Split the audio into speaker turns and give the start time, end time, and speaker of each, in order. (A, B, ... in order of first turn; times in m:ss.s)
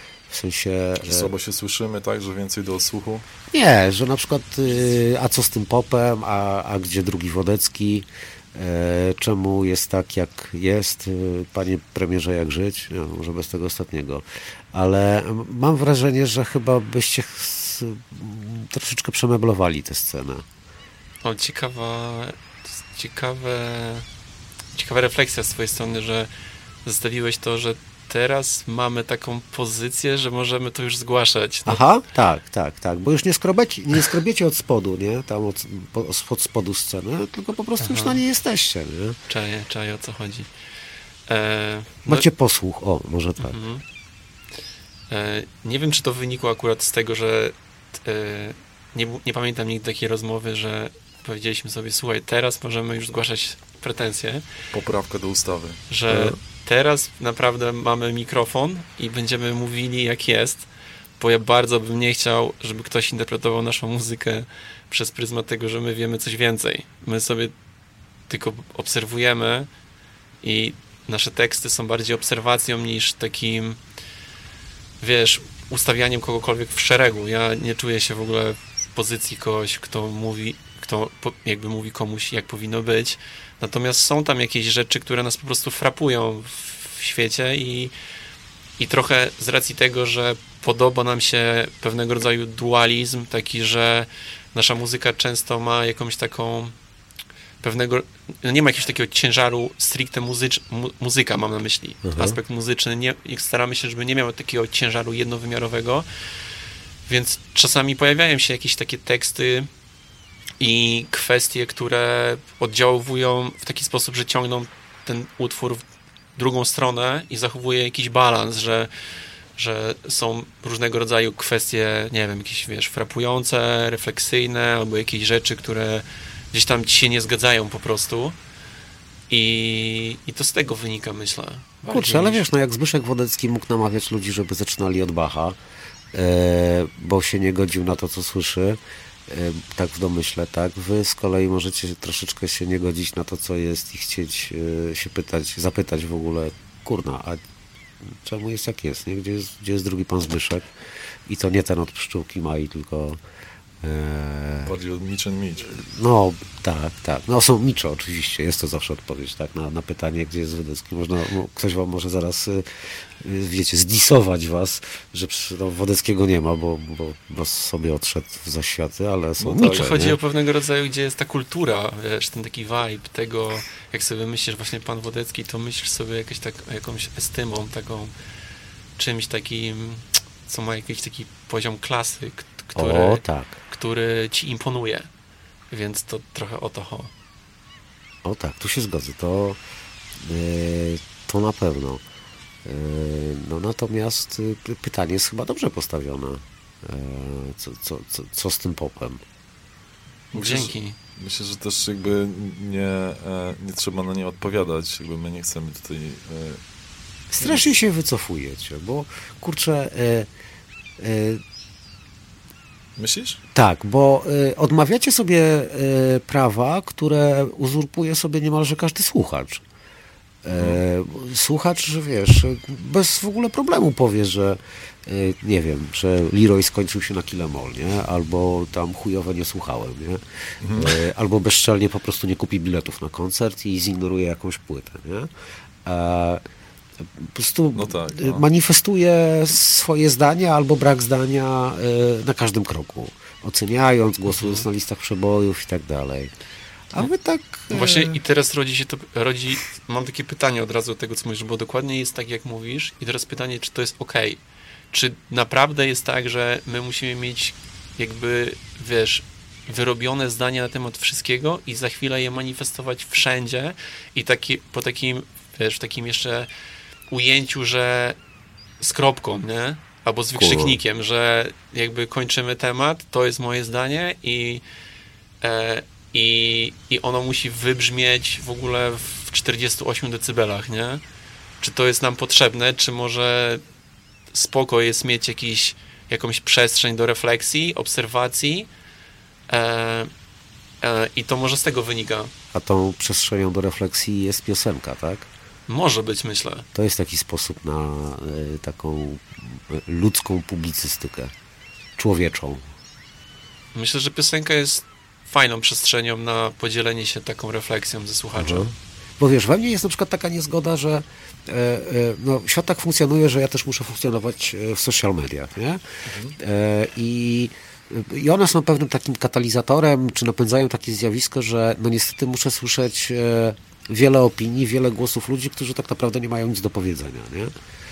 0:00.3-0:01.3 A
0:01.0-0:03.2 B
0:03.5-0:20.5 A
0:21.2-0:24.1 C
0:24.7-0:26.3 C
0:26.8-0:31.8 C
0:31.7-0:39.2 A
0:37.8-0:38.2 C
0:39.3-0:40.5 C
0:41.3-0:42.3 C
0:42.1-0:43.6 A
0:43.4-0:43.8 C
0:45.1-0:54.4 C
0:54.7-0:55.8 B
0:55.9-1:00.7 C
1:01.2-1:07.5 C
1:08.3-1:09.7 C
1:10.4-1:13.8 C
1:15.0-1:27.9 C
1:28.8-1:36.7 C
1:37.6-1:46.1 C
1:42.0-1:42.4 A
1:47.1-1:49.7 C
1:50.6-1:55.8 C
1:56.4-1:58.9 C
1:59.6-2:08.4 C
2:09.3-2:12.4 C
2:11.9-2:15.6 A
2:16.1-2:27.4 A
2:28.0-2:30.7 A
2:31.3-2:33.2 A
2:33.8-2:34.8 A
2:34.6-2:35.8 B
2:35.6-2:50.2 A
2:49.4-2:50.0 B
2:49.6-2:58.1 C
2:59.0-3:05.1 C
3:02.8-3:03.6 A
3:05.7-3:07.1 C
3:08.2-3:09.6 A
3:10.2-3:12.0 A
3:12.6-3:19.2 A
3:20.3-3:26.6 B
3:20.3-3:21.0 C
3:27.3-3:30.3 A
3:31.0-3:31.4 A
3:33.0-3:33.4 B
3:33.5-3:39.6 A
3:40.4-3:50.2 A
3:40.5-3:40.8 B
3:50.6-3:51.0 B
3:50.7-3:55.3 A
3:55.8-3:56.4 A
3:57.0-4:06.3 A
3:57.7-3:58.4 B
4:04.3-4:04.6 C
4:06.9-4:08.2 A
4:07.7-4:14.4 C
4:14.9-4:26.5 C
4:27.1-4:28.2 C
4:28.8-4:34.6 C
4:30.4-4:30.8 A
4:35.4-4:41.0 C
4:41.6-4:43.6 C
4:44.3-4:48.7 C
4:49.5-4:50.1 C
4:50.8-4:52.3 C
4:52.5-4:55.3 A
4:55.7-4:56.6 C
4:56.7-5:01.3 A
5:02.0-5:02.7 A
5:03.8-5:08.7 C
5:08.4-5:15.8 A
5:16.1-5:16.4 B
5:16.4-5:27.5 A